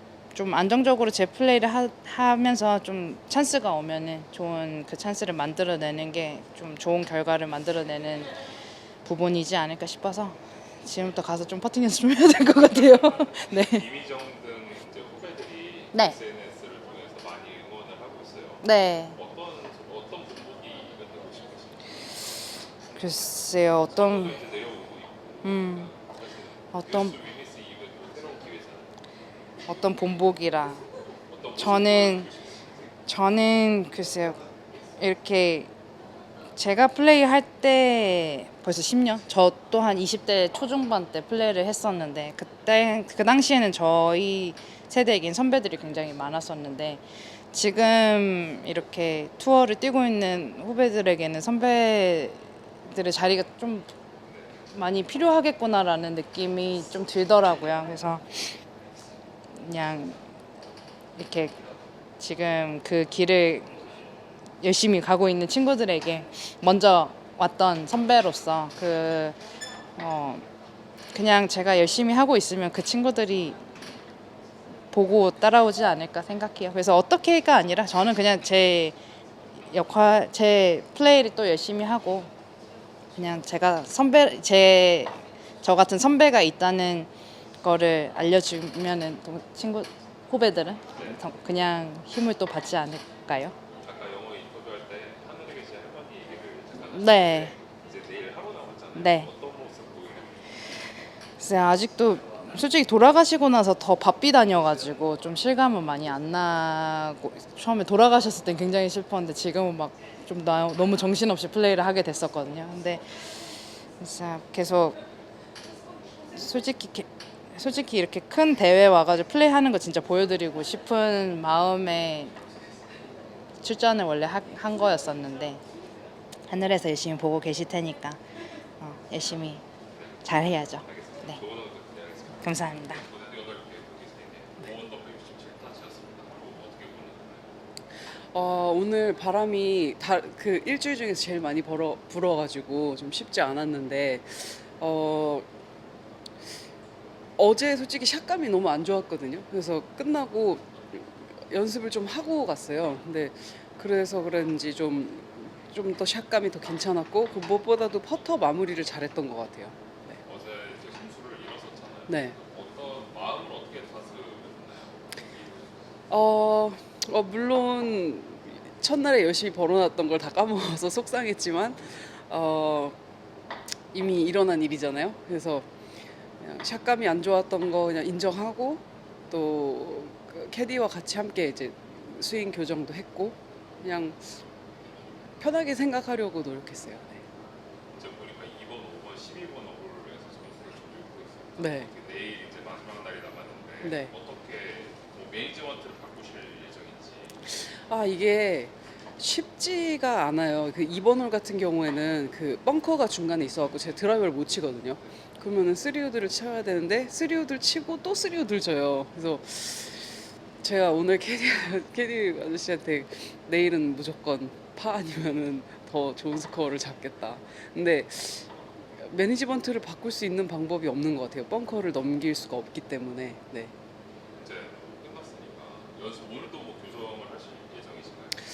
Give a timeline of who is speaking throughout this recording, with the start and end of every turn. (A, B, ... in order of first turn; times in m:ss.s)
0:00.4-0:08.4 A
0:09.0-0:13.9 A
0:12.6-0:22.4 B
0:18.6-0:19.2 A
0:23.0-0:24.4 A
0:23.9-0:29.0 B
0:25.4-0:25.9 A
0:26.7-0:27.2 A
0:29.7-0:30.8 A
0:31.3-0:33.0 B
0:31.6-0:32.3 A
0:33.1-0:34.4 A
0:35.0-0:35.7 A
0:36.6-0:53.9 A
0:54.3-0:54.6 B
0:54.7-0:58.6 A
0:59.5-1:00.2 A
1:01.2-1:01.6 A
1:02.2-1:03.7 A
1:04.6-1:09.4 A
1:10.0-1:10.4 A
1:11.1-1:13.6 A
1:14.9-1:19.0 A
1:19.7-1:22.3 A
1:23.2-1:27.1 A
1:27.6-1:33.6 A
1:30.9-1:31.2 B
1:33.7-1:40.4 B
1:36.9-1:37.5 A
1:39.0-1:39.3 A
1:41.4-1:55.0 A
1:56.3-2:02.4 A
2:03.6-2:05.6 A
2:06.5-2:08.2 A
2:08.8-2:09.6 A
2:10.0-2:10.3 B
2:10.2-2:11.4 A
2:10.8-2:17.5 B
2:12.4-2:13.0 A
2:18.1-2:25.5 C
2:27.4-2:40.2 C
2:40.2-2:45.8 B
2:42.1-2:42.4 C
2:46.1-2:53.0 C
2:53.9-2:55.7 C
2:56.4-3:04.4 C
3:05.4-3:07.2 C
3:07.9-3:17.4 B
3:11.6-3:11.9 C
3:13.8-3:14.1 C
3:17.5-3:43.7 C
3:44.4-3:48.4 B